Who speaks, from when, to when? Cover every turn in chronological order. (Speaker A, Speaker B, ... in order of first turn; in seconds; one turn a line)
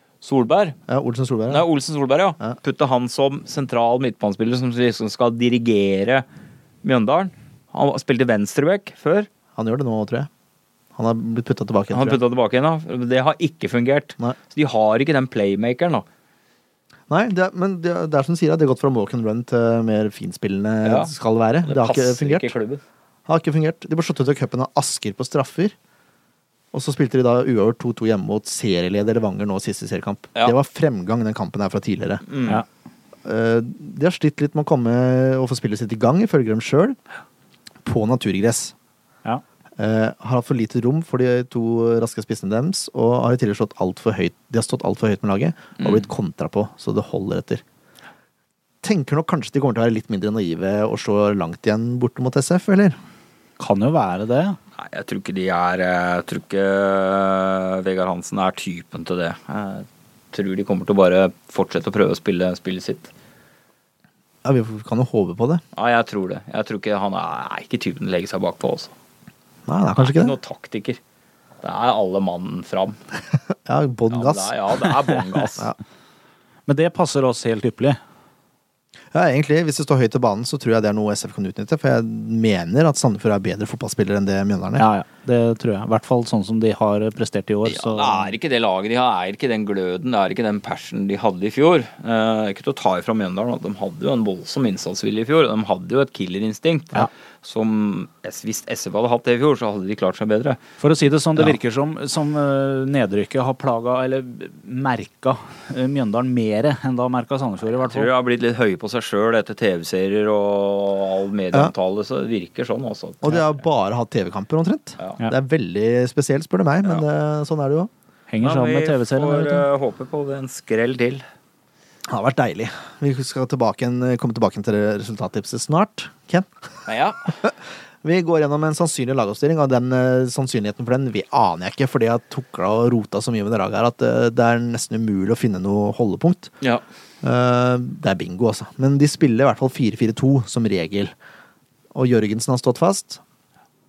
Speaker A: 0.2-0.8
Speaker B: 0.9-1.6
Speaker A: 1.5-6.2
Speaker A: 6.8-9.3
Speaker B: 9.5-10.3
Speaker B: 10.9-12.2
Speaker A: 11.9-16.1
Speaker B: 17.1-22.5
Speaker A: 20.8-21.1
Speaker A: 21.6-22.8
Speaker B: 23.3-25.7
Speaker B: 26.7-32.2
Speaker A: 32.3-32.6
Speaker B: 33.2-37.0
Speaker B: 37.8-38.7
Speaker B: 39.8-47.6
Speaker A: 45.8-46.0
Speaker B: 48.8-53.0
Speaker C: 53.6-54.6
Speaker A: 54.8-63.1
Speaker B: 64.4-65.6
Speaker A: 65.7-68.9
Speaker B: 69.7-70.4
Speaker A: 70.0-71.0
Speaker A: 71.6-73.0
Speaker B: 73.7-74.5
Speaker A: 74.1-75.7
Speaker C: 76.7-78.0
Speaker B: 79.1-84.9
Speaker C: 84.8-88.3
Speaker A: 87.6-100.6
Speaker C: 100.8-108.1
Speaker A: 107.8-113.6
Speaker B: 113.2-117.9
Speaker C: 118.3-119.6
Speaker A: 118.4-121.2
Speaker B: 122.1-126.5
Speaker A: 126.9-127.3
Speaker B: 127.4-136.5
Speaker B: 137.2-141.1
Speaker B: 141.9-143.2